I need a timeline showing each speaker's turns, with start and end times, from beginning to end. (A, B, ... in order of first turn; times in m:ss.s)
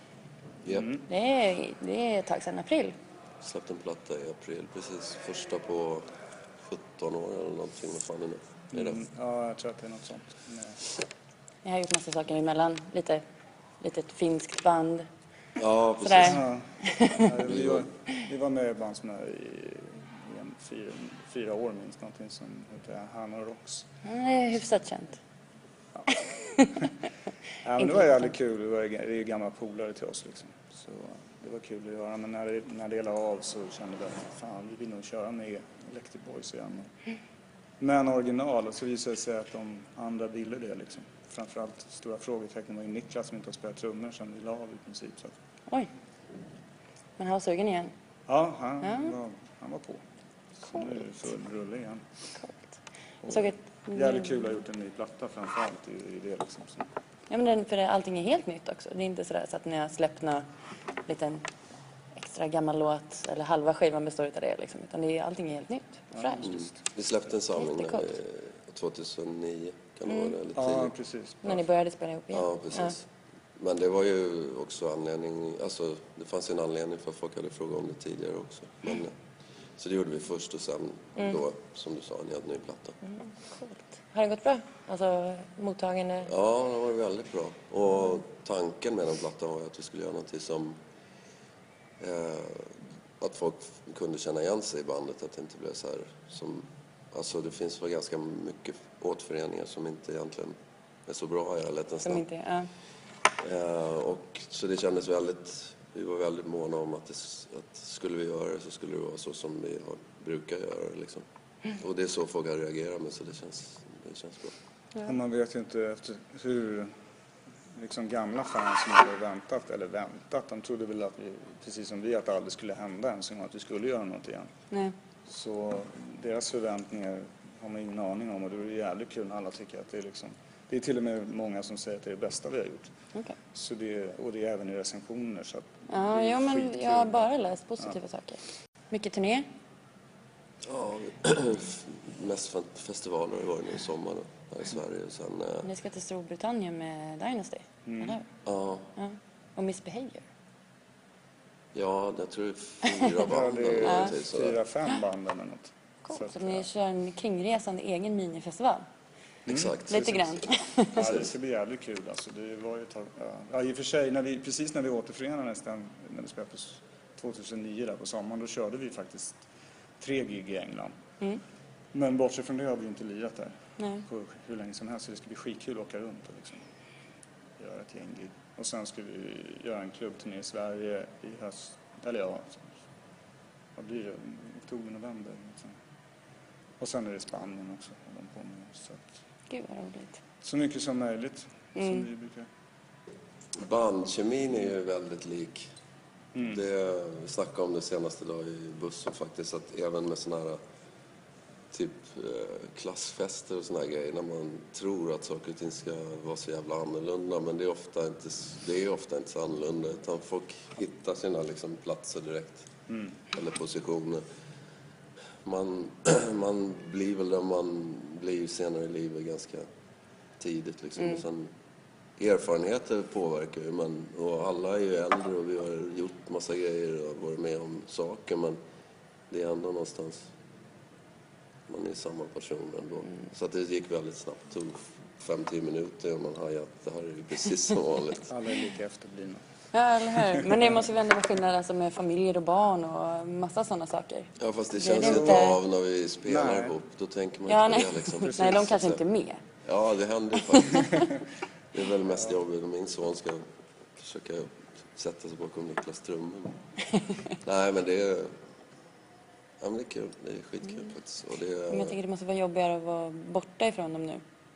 0:00.7-0:01.0 A
0:01.1-0:03.0 B
0:03.4-0:06.1 C
0:06.6-0:09.0 C
0:08.7-0:10.8 A
0:11.6-0:13.2 B
0:13.8-0:15.1 B
0:15.6-0:16.4 C
0:16.0-0:17.3 B
0:16.2-0:23.9 A
0:17.4-0:17.9 C
0:24.0-0:25.2 B
0:26.2-0:26.7 B
0:27.6-0:36.9 A
0:37.8-0:45.3 A
0:47.2-0:47.9 B
0:48.3-0:50.0 A
0:48.8-0:49.1 B
0:50.6-0:52.0 A
0:50.7-0:51.1 B
0:53.2-0:56.9 A
0:53.3-0:54.5 B
0:57.3-1:00.5 B
1:01.1-1:01.5 B
1:02.2-1:06.5 B
1:06.1-1:06.8 A
1:06.4-1:10.9 C
1:07.6-1:08.1 B
1:10.1-1:10.4 B
1:10.6-1:11.6 A
1:11.4-1:13.0 B
1:12.3-1:13.0 C
1:13.6-1:19.1 C
1:19.8-1:23.0 C
1:23.0-1:26.3 B
1:26.2-1:30.8 C
1:32.0-1:40.6 C
1:41.1-1:42.3 C
1:42.0-1:42.7 B
1:43.4-1:51.2 C
1:51.8-1:54.6 C
1:55.0-1:56.9 A
1:57.8-2:04.5 A
2:04.7-2:05.0 B
2:05.3-2:12.9 A
2:13.5-2:17.3 A
2:15.9-2:18.4 B
2:18.9-2:19.5 B
2:20.6-2:25.7 C
2:25.6-2:28.3 B
2:27.9-2:28.2 A
2:28.4-2:28.9 C
2:29.0-2:30.2 B
2:31.7-2:34.6 C
2:33.2-2:36.7 A
2:33.8-2:34.1 B
2:36.1-2:38.8 B
2:39.5-2:49.4 A
2:39.5-2:40.3 C
2:39.9-2:41.0 B
2:41.0-2:41.3 C
2:50.0-2:50.9 A
2:51.9-2:53.5 A
2:53.8-2:54.0 B
2:54.1-2:56.6 A
2:57.6-3:02.7 A
3:03.8-3:05.8 A
3:06.8-3:09.1 A
3:09.5-3:10.2 B
3:10.4-3:12.5 A
3:11.8-3:12.1 B
3:13.6-3:15.7 C
3:16.3-3:16.6 A
3:16.4-3:20.6 C
3:21.7-3:32.7 C
3:32.9-3:33.2 A
3:33.3-3:34.2 C
3:35.4-3:39.6 C
3:40.4-3:41.5 C
3:42.2-3:48.6 C
3:49.3-3:50.3 C
3:51.7-3:58.3 C
3:58.3-3:59.4 A
3:59.7-4:05.6 B
4:00.1-4:00.8 A
4:04.4-4:09.0 C
4:05.0-4:05.5 A
4:06.2-4:06.7 A
4:07.5-4:09.4 B
4:08.3-4:08.6 A
4:09.6-4:11.1 C
4:10.4-4:11.0 B
4:11.7-4:13.4 C
4:14.0-4:16.6 C
4:17.4-4:18.3 C
4:19.6-4:22.0 C
4:21.7-4:24.2 B